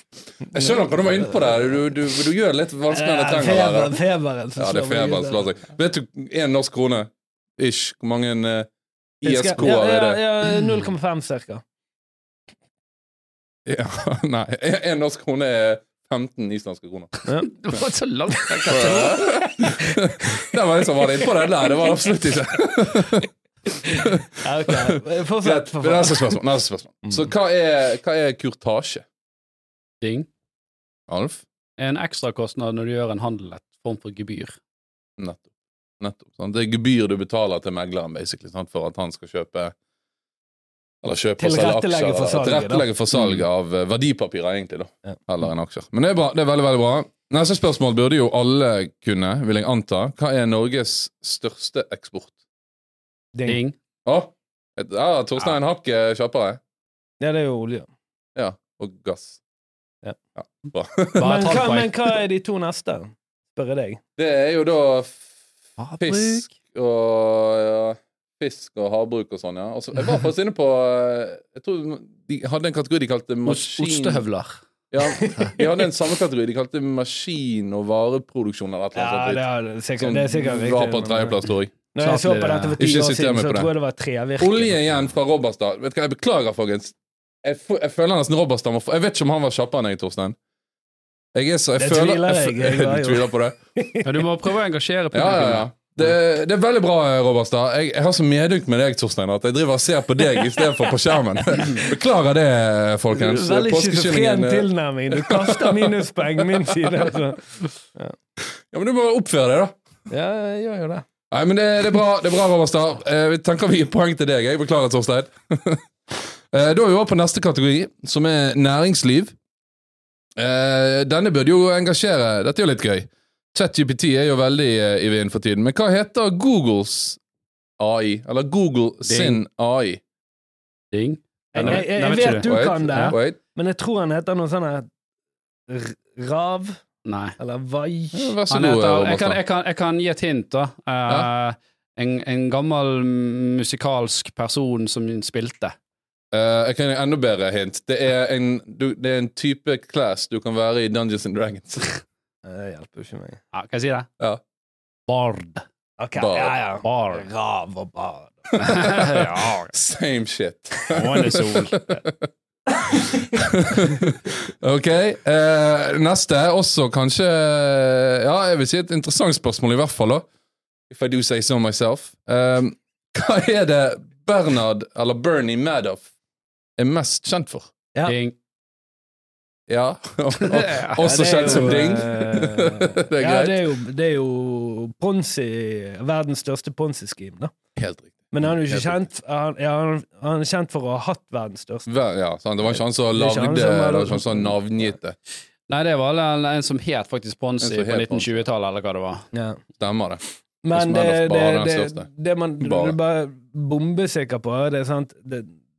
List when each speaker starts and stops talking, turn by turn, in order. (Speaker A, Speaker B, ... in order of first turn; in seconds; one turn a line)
Speaker A: 0.4-1.6
Speaker B: 0.5-4.0
Speaker A: 2.9-5.5
Speaker B: 4.5-8.7
Speaker B: 9.2-10.2
Speaker A: 9.2-11.6
Speaker B: 13.7-17.1
Speaker C: 17.2-19.2
Speaker B: 18.5-29.0
Speaker A: 23.9-26.4
Speaker C: 30.0-30.3
Speaker B: 31.1-31.4
Speaker C: 31.8-34.6
Speaker B: 35.2-35.5
Speaker B: 36.0-39.7
Speaker B: 41.0-52.3
Speaker A: 41.4-42.9
Speaker A: 53.3-53.6
Speaker C: 53.5-53.7
Speaker B: 54.0-56.6
Speaker A: 57.2-57.9
Speaker B: 58.4-59.4
Speaker B: 60.4-61.3
Speaker C: 61.1-62.0
Speaker A: 61.2-64.0
Speaker B: 64.2-65.2
Speaker C: 65.8-66.5
Speaker B: 66.0-74.2
Speaker C: 73.4-74.6
Speaker B: 74.9-79.4
Speaker A: 75.2-75.6
Speaker A: 78.9-81.4
Speaker B: 80.0-81.7
Speaker A: 81.9-84.7
Speaker C: 82.0-82.8
Speaker B: 82.8-83.7
Speaker B: 84.4-90.4
Speaker B: 91.3-93.6
Speaker A: 91.8-94.2
Speaker C: 94.0-95.7
Speaker B: 95.1-107.1
Speaker A: 103.1-108.2
Speaker B: 108.4-109.8
Speaker A: 110.1-111.0
Speaker B: 111.3-119.3
Speaker B: 120.3-127.2
Speaker B: 127.8-130.0
Speaker C: 129.1-129.4
Speaker C: 130.9-133.2
Speaker A: 131.5-134.9
Speaker B: 131.6-133.4
Speaker A: 135.7-136.8
Speaker C: 137.0-137.4
Speaker A: 137.4-138.3
Speaker B: 138.1-139.4
Speaker C: 138.5-145.7
Speaker B: 146.3-151.9
Speaker A: 152.4-153.4
Speaker C: 153.5-154.1
Speaker C: 155.1-155.6
Speaker A: 156.0-158.9
Speaker B: 156.2-156.6
Speaker C: 156.8-157.3
Speaker C: 158.6-159.7
Speaker B: 158.6-162.3
Speaker C: 160.9-162.0
Speaker B: 163.3-170.2
Speaker B: 170.9-176.1
Speaker B: 176.8-177.7
Speaker C: 178.0-178.3
Speaker B: 179.7-183.6
Speaker C: 180.3-181.8
Speaker A: 181.0-187.5
Speaker B: 187.8-189.0
Speaker A: 188.3-191.9
Speaker B: 191.9-195.2
Speaker A: 192.7-194.9
Speaker C: 195.7-199.2
Speaker B: 197.6-198.4
Speaker A: 199.3-199.6
Speaker B: 199.8-200.2
Speaker A: 200.6-205.5
Speaker B: 200.7-202.1
Speaker B: 202.6-203.0